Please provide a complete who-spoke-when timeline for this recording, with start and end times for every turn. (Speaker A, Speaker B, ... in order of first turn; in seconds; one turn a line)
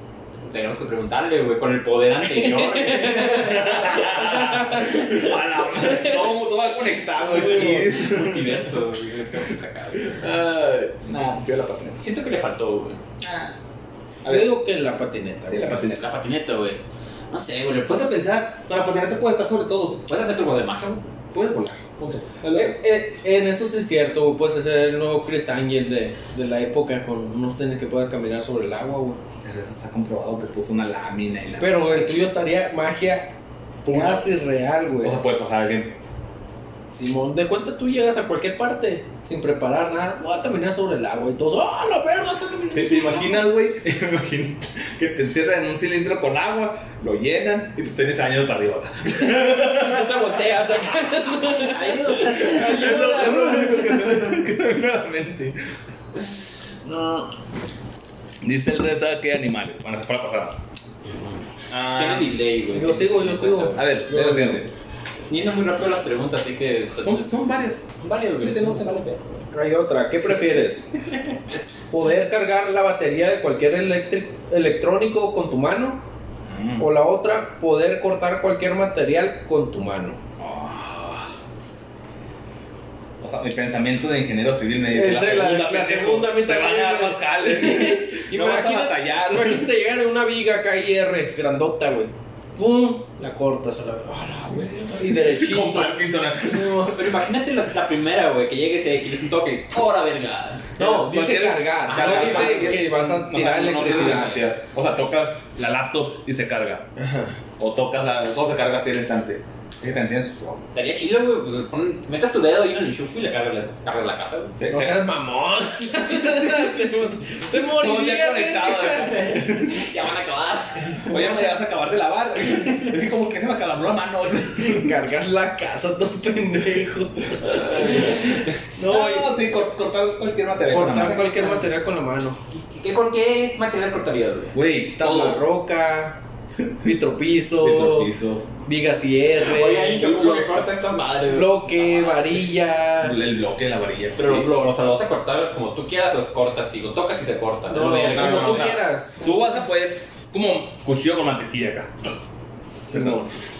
Speaker A: 0.4-4.6
Speaker B: 2.4-3.6
Speaker C: 3.1-8.7
Speaker B: 4.2-5.1
Speaker A: 7.2-10.3
Speaker C: 10.0-12.0
Speaker A: 12.0-13.0
Speaker C: 13.2-13.5
Speaker C: 14.2-14.5
Speaker B: 14.2-15.8
Speaker C: 15.5-16.1
Speaker A: 15.9-16.8
Speaker A: 17.3-18.1
Speaker C: 17.9-20.0
Speaker A: 20.1-21.0
Speaker C: 21.3-22.8
Speaker B: 22.5-29.2
Speaker C: 29.4-32.1
Speaker B: 31.6-33.3
Speaker B: 33.8-35.2
Speaker C: 33.9-34.3
Speaker C: 35.0-36.0
Speaker B: 36.9-43.5
Speaker C: 42.7-50.4
Speaker B: 49.2-54.2
Speaker A: 51.7-53.0
Speaker C: 51.8-55.7
Speaker B: 56.8-57.3
Speaker C: 58.4-60.6
Speaker C: 61.7-62.4
Speaker A: 61.9-63.8
Speaker B: 62.7-64.7
Speaker C: 63.8-64.7
Speaker A: 65.3-67.4
Speaker C: 67.0-67.8
Speaker A: 68.0-69.2
Speaker C: 68.4-69.1
Speaker B: 69.5-70.8
Speaker B: 71.9-76.0
Speaker C: 76.5-76.9
Speaker B: 76.8-80.2
Speaker C: 80.4-81.3
Speaker C: 83.2-89.7
Speaker B: 84.9-96.0
Speaker C: 94.6-97.1
Speaker A: 96.5-100.8
Speaker B: 100.8-104.4
Speaker C: 100.8-106.8
Speaker A: 101.8-102.9
Speaker B: 107.0-107.3
Speaker C: 107.6-110.6
Speaker A: 110.7-114.6
Speaker C: 114.6-115.0
Speaker B: 114.7-119.4
Speaker C: 117.5-119.9
Speaker A: 119.2-121.2
Speaker C: 121.0-125.0
Speaker B: 121.0-121.5
Speaker B: 124.6-129.5
Speaker C: 127.4-131.4
Speaker B: 130.7-132.4
Speaker A: 131.1-131.7
Speaker A: 132.5-134.5
Speaker C: 134.5-135.4
Speaker B: 134.9-136.2
Speaker B: 136.8-138.1
Speaker C: 137.6-138.5
Speaker B: 138.6-140.1
Speaker A: 139.4-142.4
Speaker C: 140.0-140.8
Speaker B: 141.3-143.2
Speaker C: 143.0-144.5
Speaker A: 144.2-148.7
Speaker B: 147.7-149.3
Speaker C: 148.1-152.2
Speaker C: 152.9-153.3
Speaker B: 152.9-153.2